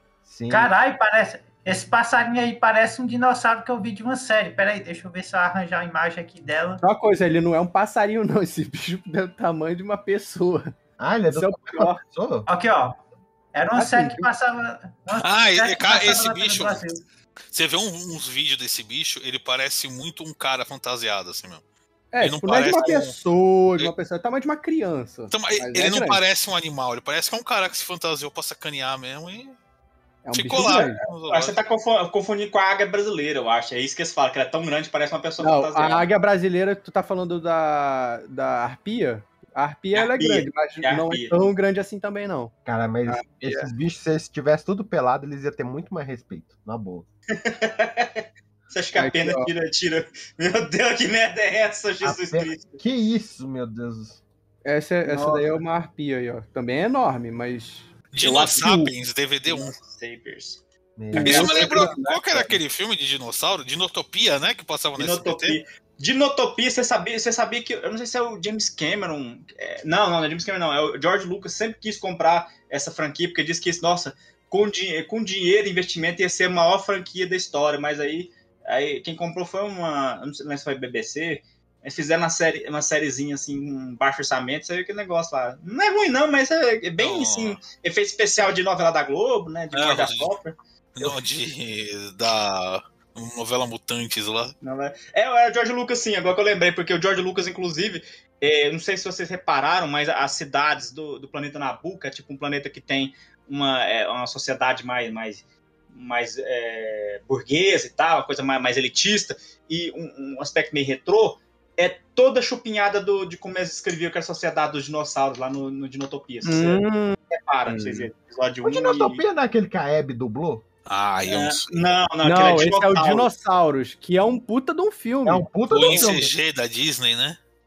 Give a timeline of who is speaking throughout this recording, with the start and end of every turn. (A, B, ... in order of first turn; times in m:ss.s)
0:00.2-0:00.7 A
0:00.5-0:06.8 B
0:06.8-0:10.7 C
0:11.0-0:12.5 A
0:11.3-0:12.0 C
0:12.5-0:13.0 B
0:13.5-0:17.0 B
0:13.7-0:14.2 C
0:15.1-0:16.9 D
0:17.5-0:21.6 D
0:22.1-0:26.2 C
0:22.2-0:23.2 D
0:25.3-0:29.6 D
0:30.2-0:31.0 C
0:30.3-0:31.6 D
0:31.3-0:36.1 E
0:35.4-0:42.5 C
0:39.9-0:41.4 E
0:42.6-0:47.0 A
0:43.1-0:43.7 C
0:47.3-0:52.8 E
0:48.9-0:49.5 C
0:52.0-0:54.2 A
0:54.6-0:58.9 C
0:55.0-0:55.5 E
0:58.1-0:59.7 D
0:59.5-1:00.6 E
1:01.0-1:01.7 A
1:01.1-1:02.5 C
1:01.2-1:05.6 D
1:05.0-1:31.1 E
1:27.0-1:27.6 D
1:29.7-1:30.3 D
1:30.9-1:34.5 D
1:34.6-1:59.2 E
1:56.4-1:58.1 C
1:58.6-2:00.6 A
2:00.8-2:01.8 D
2:01.2-2:03.3 E
2:02.2-2:05.5 C
2:05.2-2:06.4 A
2:05.7-2:07.4 D